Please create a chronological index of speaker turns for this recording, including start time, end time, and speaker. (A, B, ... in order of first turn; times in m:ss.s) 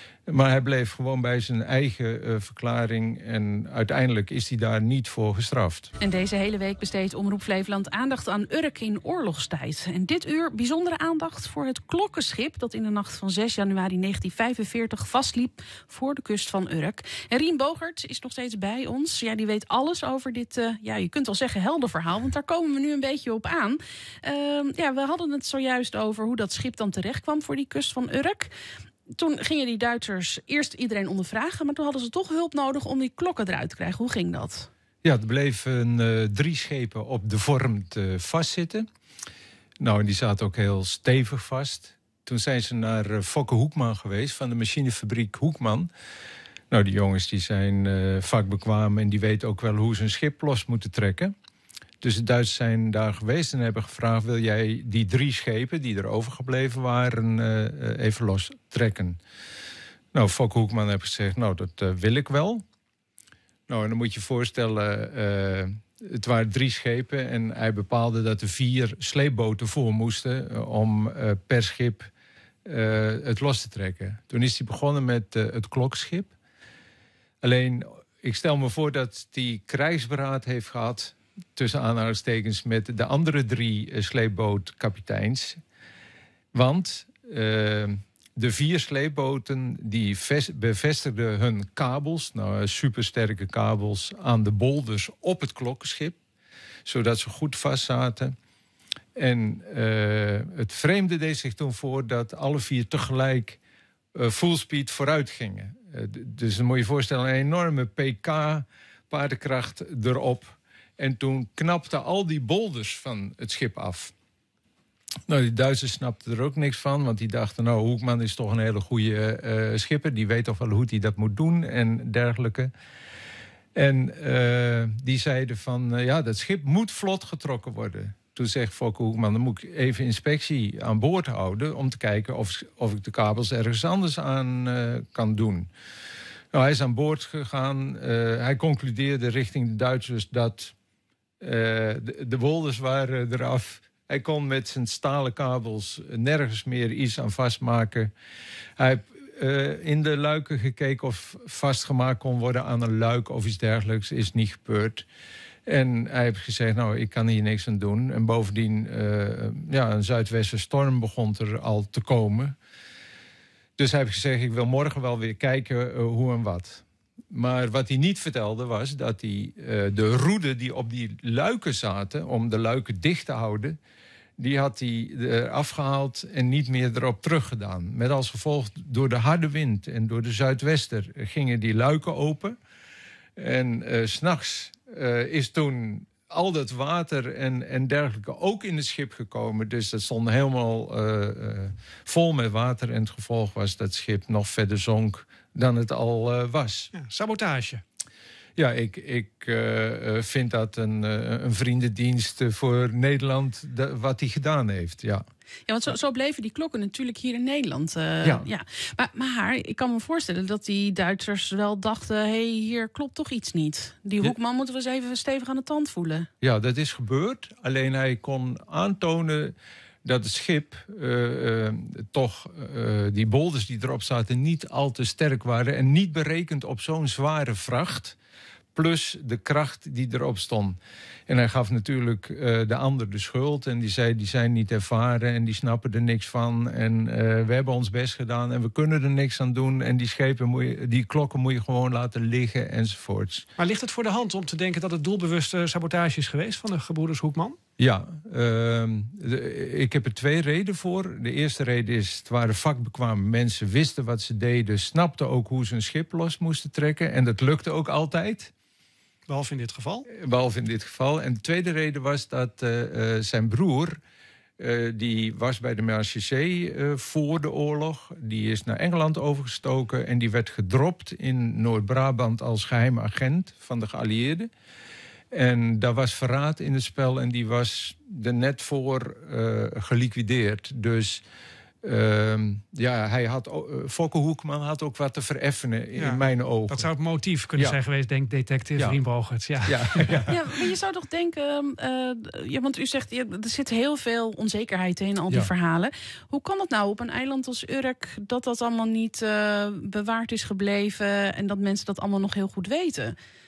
0:00.3-0:05.9 A
0:06.0-0:28.5 B
0:29.1-0:34.7 B
0:35.0-0:38.9 A
0:39.8-0:45.9 A
0:46.7-0:51.3 A
0:52.0-0:59.2 A
1:00.1-1:02.6 A
1:03.7-1:12.1 A
1:12.6-1:16.3 A
1:17.4-1:25.6 A
1:26.5-1:36.2 A
1:36.8-1:38.3 A
1:39.2-1:43.6 A
1:44.2-1:54.1 A
1:55.3-2:02.7 A
2:03.8-2:15.7 A
2:16.5-2:20.7 A
2:21.4-2:28.1 A
2:28.8-2:35.1 A
2:35.7-2:42.6 A
2:43.8-2:53.8 A
2:54.4-3:02.6 A
3:03.4-3:16.9 A
3:16.9-3:17.8 C
3:18.6-3:25.2 A
3:25.7-3:36.3 B
3:28.2-3:28.5 A
3:36.4-3:39.5 A
3:40.0-3:48.2 A
3:48.8-4:03.5 A
4:03.6-4:07.6 C
4:07.8-4:18.5 A
4:19.3-4:20.1 C
4:20.1-4:24.0 A
4:24.6-4:34.5 A
4:35.3-4:41.2 A
4:41.8-4:46.9 A
4:46.0-4:50.3 C
4:49.6-4:50.7 A
4:50.3-5:03.1 B